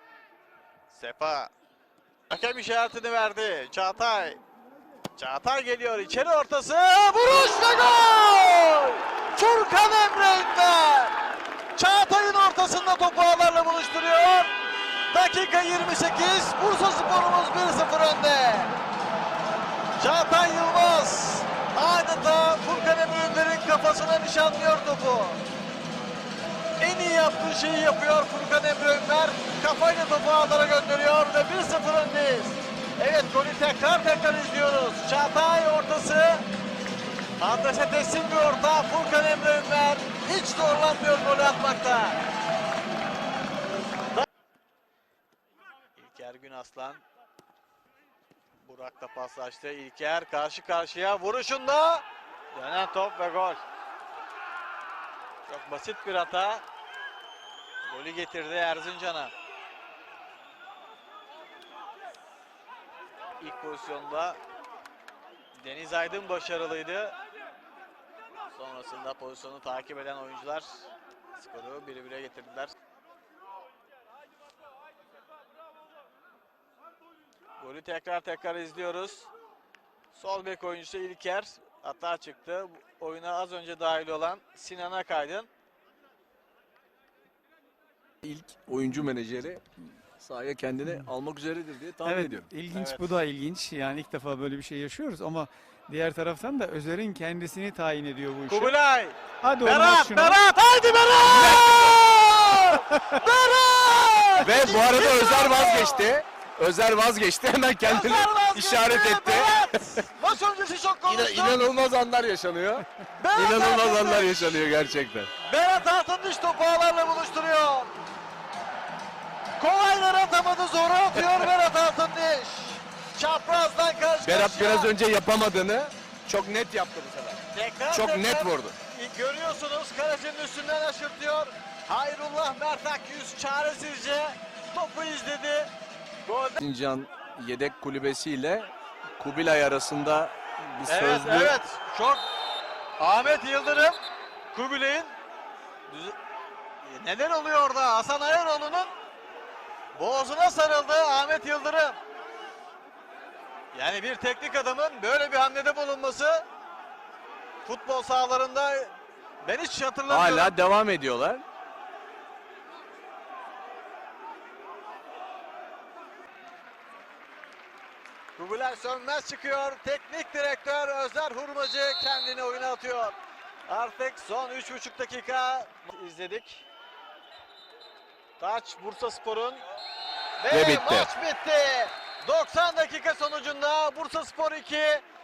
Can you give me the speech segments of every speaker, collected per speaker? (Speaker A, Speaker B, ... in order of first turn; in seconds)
Speaker A: 0.9-1.5, 2.3-4.4, 5.2-11.2, 11.7-14.5, 15.1-18.7, 20.0-25.4, 26.8-36.4, 37.4-42.2, 46.0-47.0, 48.6-53.6, 55.5-56.6, 57.8-59.3, 63.4-64.4, 65.6-67.1, 68.5-72.7, 77.6-79.3, 80.1-85.5, 92.7-93.1, 98.5-106.1, 107.8-111.6, 113.2-114.6, 115.4-117.9, 119.6-124.9, 127.5-135.7, 136.2-136.6, 140.8-142.2, 143.0-144.0, 144.5-145.1, 145.9-146.2, 146.8-148.9, 149.9-152.0, 153.7-156.4, 157.6-160.6, 168.3-173.2, 173.7-176.7, 178.4-179.6, 180.4-185.0
Speaker B: 88.2-89.6, 90.2-92.5, 101.2-101.9, 104.4-110.0, 111.1-115.3, 124.2-128.8, 136.6-141.6, 160.1-161.4, 180.5-181.1
Speaker C: 92.0-98.7, 99.4-100.4, 102.6-103.0